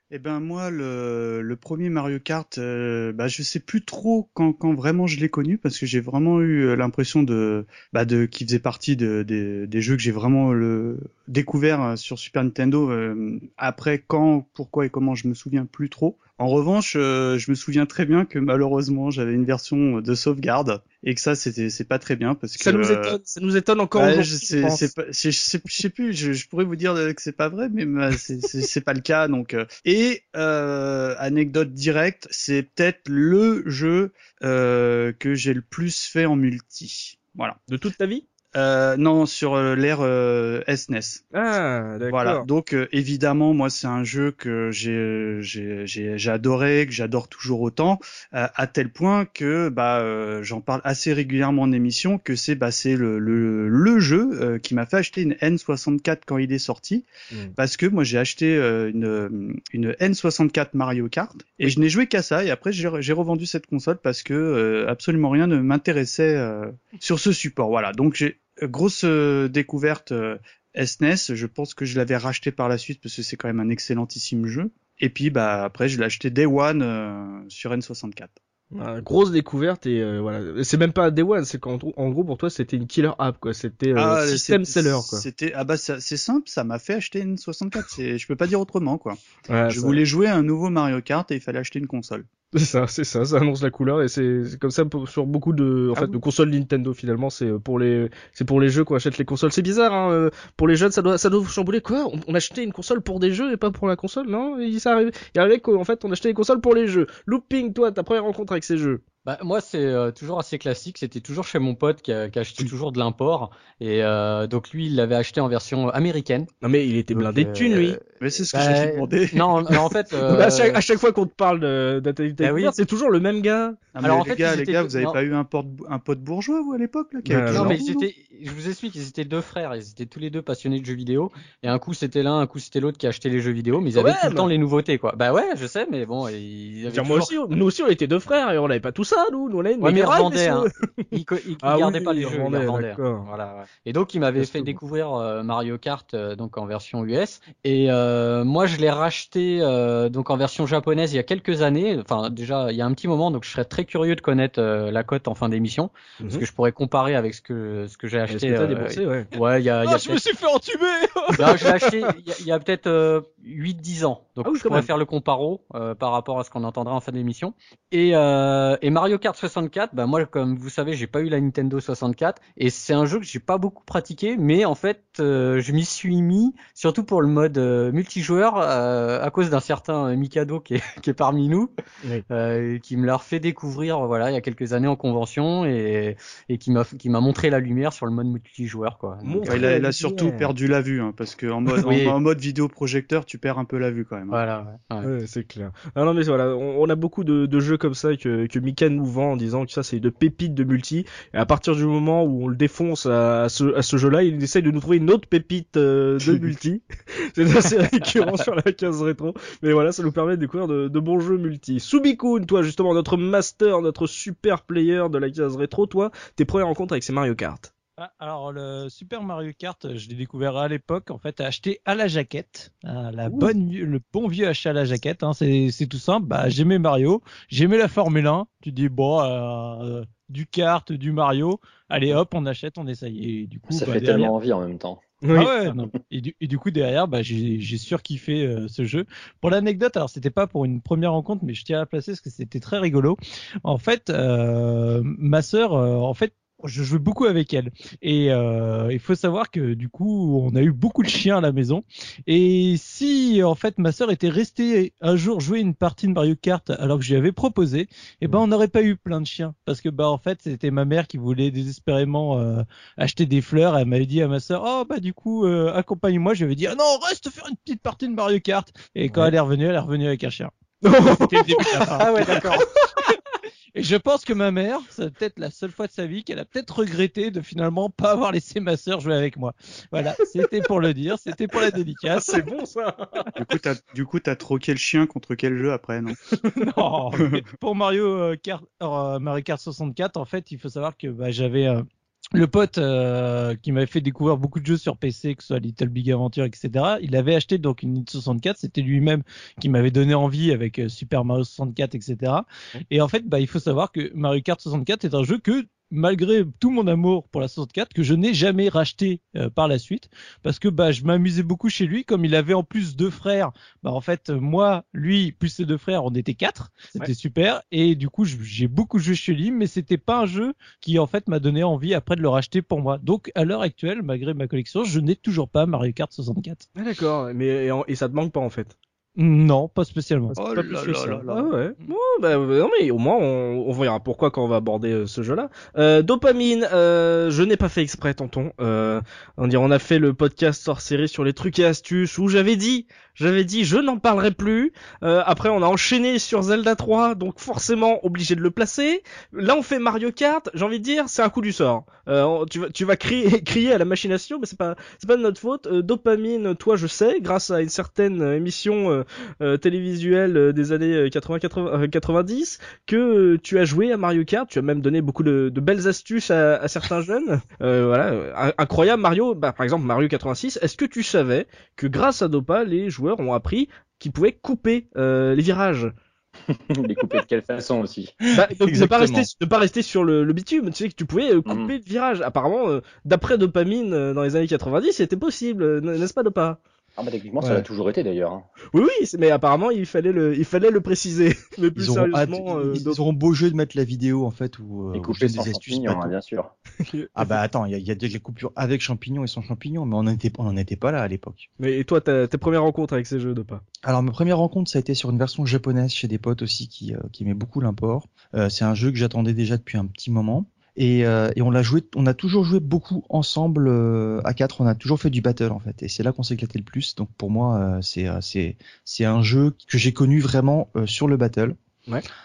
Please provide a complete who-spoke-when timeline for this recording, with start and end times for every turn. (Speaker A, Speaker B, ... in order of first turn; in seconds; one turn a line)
Speaker A: 0.1-23.2
Speaker B: 22.6-24.9
Speaker A: 23.9-37.6
Speaker B: 37.7-38.3
Speaker A: 38.5-41.2
Speaker B: 41.3-42.5
Speaker A: 42.1-78.4
Speaker B: 78.7-85.2
Speaker A: 84.0-92.3
Speaker B: 89.5-90.0
Speaker B: 92.5-109.0
Speaker C: 109.2-116.5
Speaker B: 116.6-118.0
Speaker C: 117.1-120.8
Speaker A: 118.2-120.0
Speaker B: 120.2-123.9
Speaker C: 122.4-122.8
Speaker A: 124.0-128.1
Speaker C: 124.0-125.2
Speaker B: 127.3-127.9
Speaker C: 127.5-137.4
Speaker B: 133.9-134.5
Speaker B: 136.9-140.7
Speaker C: 139.8-160.3
Speaker B: 141.6-143.3
Speaker B: 144.4-144.8
Speaker B: 156.2-156.5
Speaker B: 158.3-159.3
Speaker D: 160.0-161.4
Speaker B: 161.3-162.1
Speaker C: 161.3-181.7
Speaker B: 164.4-164.9
Speaker C: 182.3-189.8
Speaker B: 189.2-190.5
Speaker A: 189.4-194.4
Speaker C: 191.7-192.2
Speaker C: 194.3-195.1
Speaker B: 195.0-217.7
Speaker D: 218.0-234.3
Speaker E: 233.7-235.1
Speaker B: 235.2-235.6
Speaker D: 235.3-270.5
Speaker B: 270.8-272.5
Speaker D: 271.1-272.7
Speaker C: 271.9-272.7
Speaker D: 273.8-282.4
Speaker B: 282.2-283.3
Speaker A: 283.4-286.2
Speaker D: 286.6-326.6
Speaker A: 287.2-287.4
Speaker B: 326.8-328.8
Speaker D: 329.2-331.3
Speaker A: 330.3-331.5
Speaker B: 331.3-375.9
Speaker E: 376.5-378.2
Speaker F: 378.3-379.3
Speaker B: 378.3-386.6
Speaker E: 381.5-381.7
Speaker E: 387.0-388.5
Speaker B: 388.7-393.0
Speaker F: 391.8-396.1
Speaker E: 394.9-396.5
Speaker F: 397.1-401.5
Speaker B: 401.6-403.6
Speaker F: 403.8-421.6